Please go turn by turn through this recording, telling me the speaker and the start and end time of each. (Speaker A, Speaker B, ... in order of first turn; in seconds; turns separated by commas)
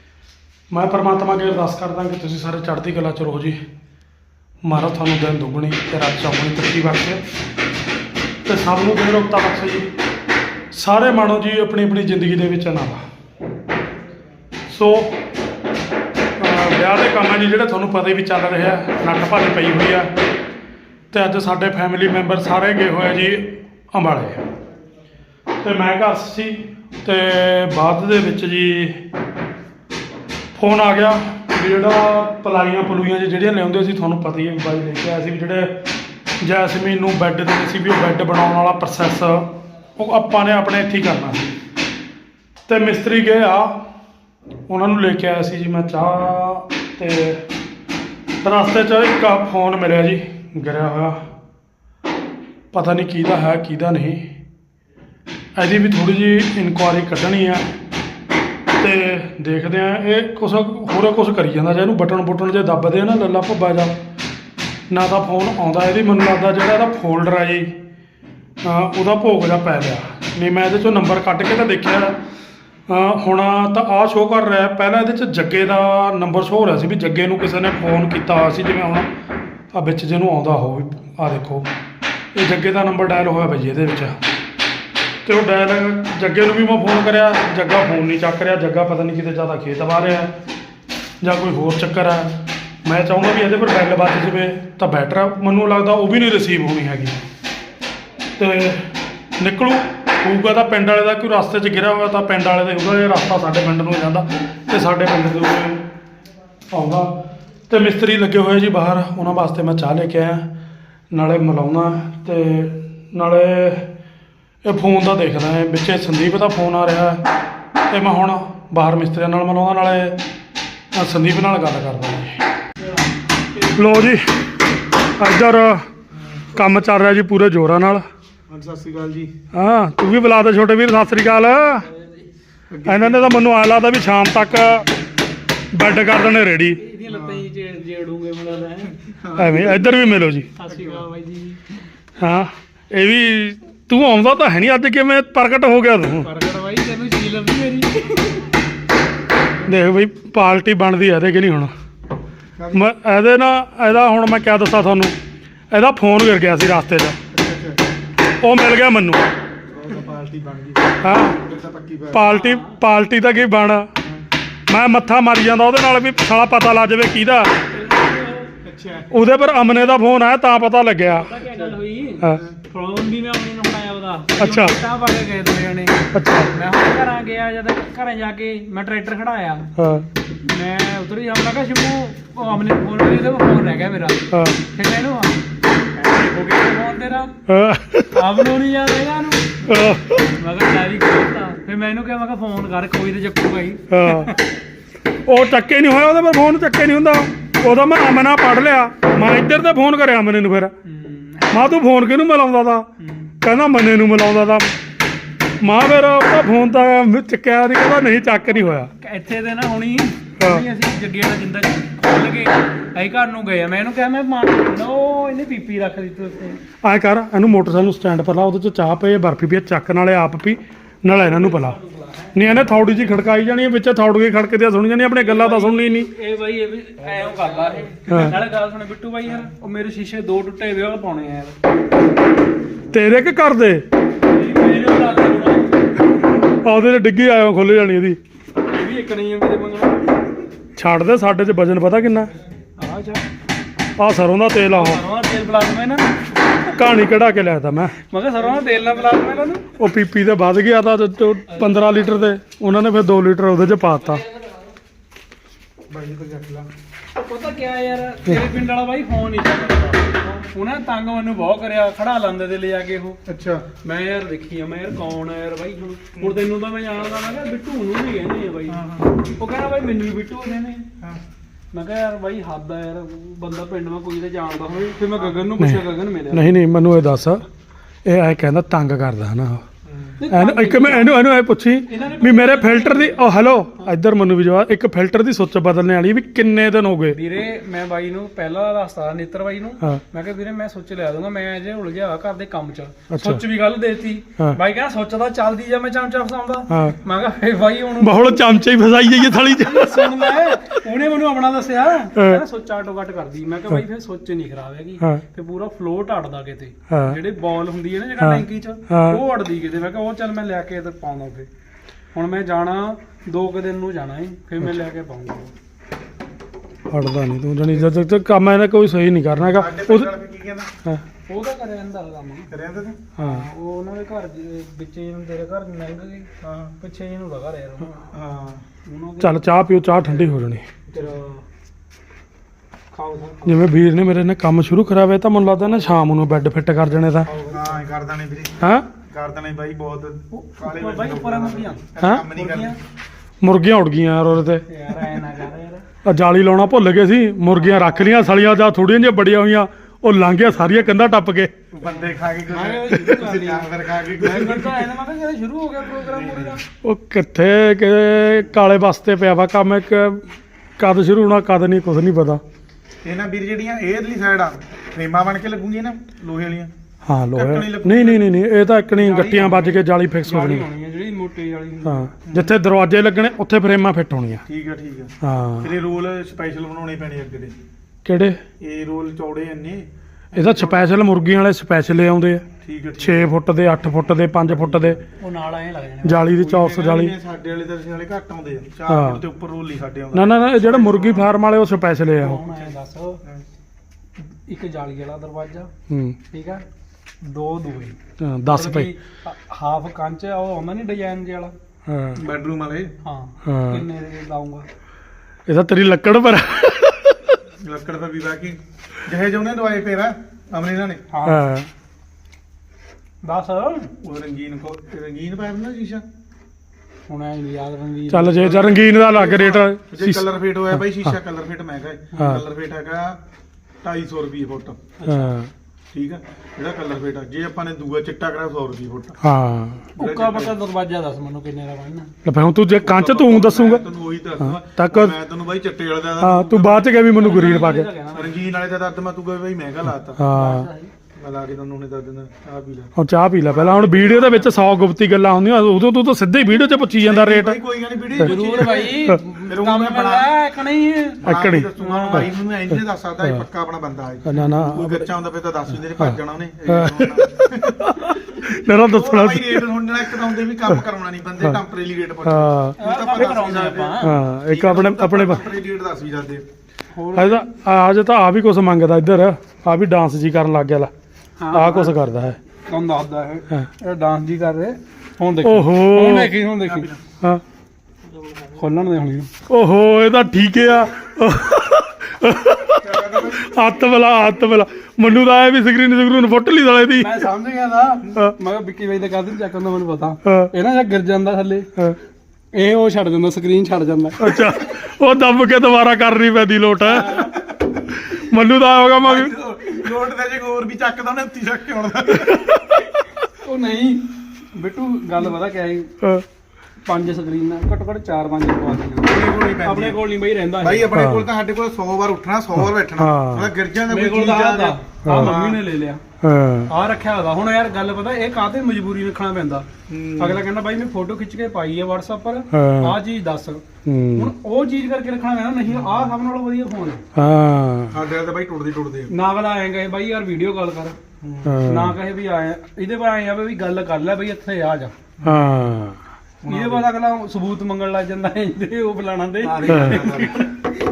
Speaker A: 0.7-3.6, Speaker A: 4.6-7.2, Speaker A: 8.4-9.9, Speaker A: 10.7-13.0, Speaker A: 14.7-15.2, Speaker A: 16.4-20.1, Speaker A: 21.1-24.4, Speaker A: 25.6-29.0, Speaker A: 30.5-35.8, Speaker A: 36.4-41.6, Speaker A: 42.7-43.9, Speaker A: 44.7-47.5, Speaker A: 48.4-51.3, Speaker A: 52.7-54.4, Speaker A: 55.5-57.7, Speaker A: 58.8-64.0, Speaker A: 64.9-67.8, Speaker A: 68.6-72.2, Speaker A: 72.9-79.1, Speaker A: 79.7-81.7, Speaker A: 82.3-84.2, Speaker A: 85.2-90.3, Speaker A: 91.2-97.2, Speaker A: 98.4-105.8, Speaker A: 106.7-110.5, Speaker A: 111.1-113.9, Speaker A: 114.6-117.2, Speaker A: 117.9-120.2, Speaker A: 120.9-122.4, Speaker A: 123.7-124.3, Speaker A: 125.2-125.9, Speaker B: 126.1-126.6, Speaker A: 126.5-128.0, Speaker B: 128.5-129.3, Speaker A: 129.5-131.8, Speaker B: 132.7-133.4, Speaker A: 132.8-134.9, Speaker A: 135.7-136.8, Speaker C: 136.8-138.9, Speaker B: 137.1-137.5, Speaker B: 139.0-140.0, Speaker A: 139.3-140.5, Speaker C: 140.6-141.6, Speaker B: 140.7-141.1, Speaker A: 142.2-146.3, Speaker C: 146.2-148.5, Speaker A: 149.6-151.7, Speaker B: 152.6-152.9, Speaker A: 152.7-155.1, Speaker A: 155.7-157.2, Speaker B: 157.3-157.8, Speaker A: 158.4-159.2, Speaker B: 159.7-162.3, Speaker A: 161.0-161.4, Speaker A: 162.1-163.9, Speaker C: 162.2-162.8, Speaker A: 164.7-167.6, Speaker C: 167.6-168.5, Speaker B: 168.6-169.1, Speaker A: 169.1-171.3, Speaker C: 171.0-179.7, Speaker B: 171.4-172.6, Speaker A: 174.4-174.8, Speaker A: 176.1-176.5, Speaker A: 179.8-180.1, Speaker C: 180.4-185.4, Speaker A: 184.3-184.6, Speaker C: 185.9-187.3, Speaker A: 187.5-188.2, Speaker C: 188.1-189.6, Speaker A: 189.7-190.2, Speaker C: 190.4-194.4, Speaker A: 193.9-194.3, Speaker A: 195.3-200.7, Speaker C: 200.8-201.8, Speaker A: 201.5-202.9, Speaker C: 203.0-203.3, Speaker A: 203.4-204.7, Speaker A: 205.6-208.9, Speaker C: 208.6-216.6, Speaker A: 210.4-210.6, Speaker A: 216.8-221.8, Speaker C: 221.1-222.9, Speaker A: 222.3-226.1, Speaker C: 225.2-231.6, Speaker A: 228.1-228.3, Speaker A: 232.9-233.8, Speaker C: 234.2-236.1, Speaker A: 236.5-238.2, Speaker C: 238.6-240.3, Speaker A: 240.8-242.3, Speaker C: 242.8-243.2, Speaker A: 244.0-245.0, Speaker C: 244.7-246.1, Speaker A: 246.7-248.0, Speaker C: 248.1-249.7, Speaker B: 248.4-249.5, Speaker A: 249.8-254.2, Speaker C: 251.6-252.2, Speaker B: 255.9-256.7, Speaker C: 257.1-263.2, Speaker B: 263.2-263.7, Speaker C: 263.8-270.9, Speaker B: 268.7-269.2, Speaker C: 271.7-276.5, Speaker A: 275.6-277.4, Speaker A: 278.0-279.6, Speaker B: 279.8-280.2, Speaker C: 280.2-281.3, Speaker A: 280.3-287.2, Speaker C: 281.9-283.9, Speaker C: 287.1-298.4, Speaker A: 293.1-293.4, Speaker A: 296.7-297.0, Speaker A: 298.0-300.8, Speaker C: 299.3-311.5, Speaker A: 302.1-302.4, Speaker A: 306.9-307.2, Speaker A: 308.2-309.2, Speaker C: 312.1-315.5, Speaker A: 316.9-320.1, Speaker B: 319.4-320.7, Speaker C: 321.3-322.5, Speaker B: 322.5-323.0, Speaker A: 323.2-323.4, Speaker C: 323.2-326.3, Speaker B: 326.4-326.7, Speaker C: 326.8-328.1, Speaker B: 328.1-328.6, Speaker C: 328.9-330.2, Speaker A: 329.2-330.6, Speaker B: 330.9-331.2, Speaker C: 330.9-331.4, Speaker C: 332.9-333.7, Speaker A: 333.4-337.3, Speaker B: 337.3-342.8, Speaker C: 337.3-337.6, Speaker A: 338.6-338.9, Speaker C: 340.3-342.8, Speaker A: 342.0-342.2, Speaker A: 343.4-344.6, Speaker C: 344.7-345.9, Speaker A: 346.0-351.5, Speaker C: 347.6-348.1, Speaker B: 350.5-350.9, Speaker B: 351.7-354.9, Speaker C: 351.9-356.6, Speaker B: 356.0-356.6, Speaker A: 356.8-360.2, Speaker A: 360.8-362.4, Speaker B: 363.0-366.7, Speaker A: 367.1-370.6, Speaker B: 367.3-368.3, Speaker B: 368.9-369.8, Speaker C: 369.5-372.1, Speaker A: 371.8-374.4, Speaker B: 372.2-372.5, Speaker B: 374.5-377.5, Speaker A: 375.2-375.7, Speaker A: 378.0-378.4, Speaker B: 378.6-380.9, Speaker A: 380.3-382.4, Speaker B: 382.6-383.3, Speaker A: 383.0-385.0, Speaker B: 384.4-385.0, Speaker C: 385.2-386.2, Speaker A: 386.0-387.1, Speaker B: 386.4-391.3, Speaker A: 388.9-389.2, Speaker A: 390.1-392.4, Speaker C: 392.2-393.2, Speaker C: 394.5-395.7, Speaker A: 395.9-396.2, Speaker C: 396.3-396.6, Speaker C: 397.2-398.0, Speaker A: 398.2-398.9, Speaker C: 398.5-401.5, Speaker A: 401.9-402.2, Speaker B: 402.1-402.9, Speaker C: 403.0-404.6, Speaker A: 403.4-403.8, Speaker A: 405.5-407.4, Speaker B: 407.6-411.0, Speaker C: 411.1-411.4, Speaker A: 411.2-411.7, Speaker C: 413.2-413.9, Speaker B: 414.0-416.0, Speaker C: 417.1-418.6, Speaker A: 418.1-420.2, Speaker B: 418.4-423.2, Speaker C: 422.1-422.4, Speaker A: 422.1-422.4, Speaker B: 423.8-424.9, Speaker C: 425.0-425.3, Speaker A: 425.0-425.5, Speaker B: 425.9-429.2, Speaker A: 429.2-429.9, Speaker B: 429.9-430.5, Speaker C: 430.0-432.1, Speaker A: 432.2-433.8, Speaker B: 432.8-437.0, Speaker A: 434.4-435.1, Speaker A: 436.2-437.9, Speaker C: 436.8-438.3, Speaker B: 438.1-440.2, Speaker A: 440.2-440.7, Speaker C: 440.3-440.9, Speaker B: 441.1-442.9, Speaker A: 442.9-447.6, Speaker B: 443.4-444.6, Speaker B: 446.8-450.3, Speaker A: 448.2-449.2, Speaker C: 448.2-451.2, Speaker B: 451.2-466.4, Speaker A: 451.2-452.3, Speaker C: 451.8-452.3, Speaker A: 454.3-455.1, Speaker A: 456.0-459.7, Speaker A: 462.2-462.8, Speaker C: 462.8-464.1, Speaker A: 464.0-465.4, Speaker C: 466.9-467.5, Speaker A: 467.1-470.9, Speaker C: 471.4-471.9, Speaker A: 471.5-472.4, Speaker C: 472.6-476.9, Speaker A: 475.4-476.3, Speaker B: 476.6-477.0, Speaker C: 478.5-479.3, Speaker A: 479.5-487.2, Speaker B: 482.8-483.8, Speaker C: 487.0-491.7, Speaker A: 490.2-490.5, Speaker C: 492.5-494.5, Speaker A: 494.2-497.3, Speaker C: 496.9-497.3, Speaker B: 497.1-497.6, Speaker A: 498.0-499.3, Speaker B: 499.0-502.6, Speaker A: 502.2-502.8, Speaker C: 503.4-505.9, Speaker C: 506.9-511.0, Speaker B: 509.0-510.0, Speaker B: 510.6-515.6, Speaker A: 510.9-511.3, Speaker A: 512.6-513.5, Speaker C: 513.9-516.0, Speaker A: 515.0-515.3, Speaker A: 516.2-516.7, Speaker C: 516.7-519.7, Speaker B: 519.9-520.5, Speaker C: 520.2-523.6, Speaker A: 522.5-523.0, Speaker A: 523.8-524.3, Speaker C: 524.1-527.0, Speaker B: 525.7-526.2, Speaker A: 527.1-527.9, Speaker B: 527.9-529.1, Speaker C: 529.1-531.0, Speaker B: 531.2-531.6, Speaker A: 531.4-532.0, Speaker C: 531.6-534.9, Speaker B: 535.2-535.5, Speaker A: 535.2-536.0, Speaker B: 536.4-536.9, Speaker C: 536.5-540.5, Speaker B: 539.4-540.5, Speaker A: 539.7-540.1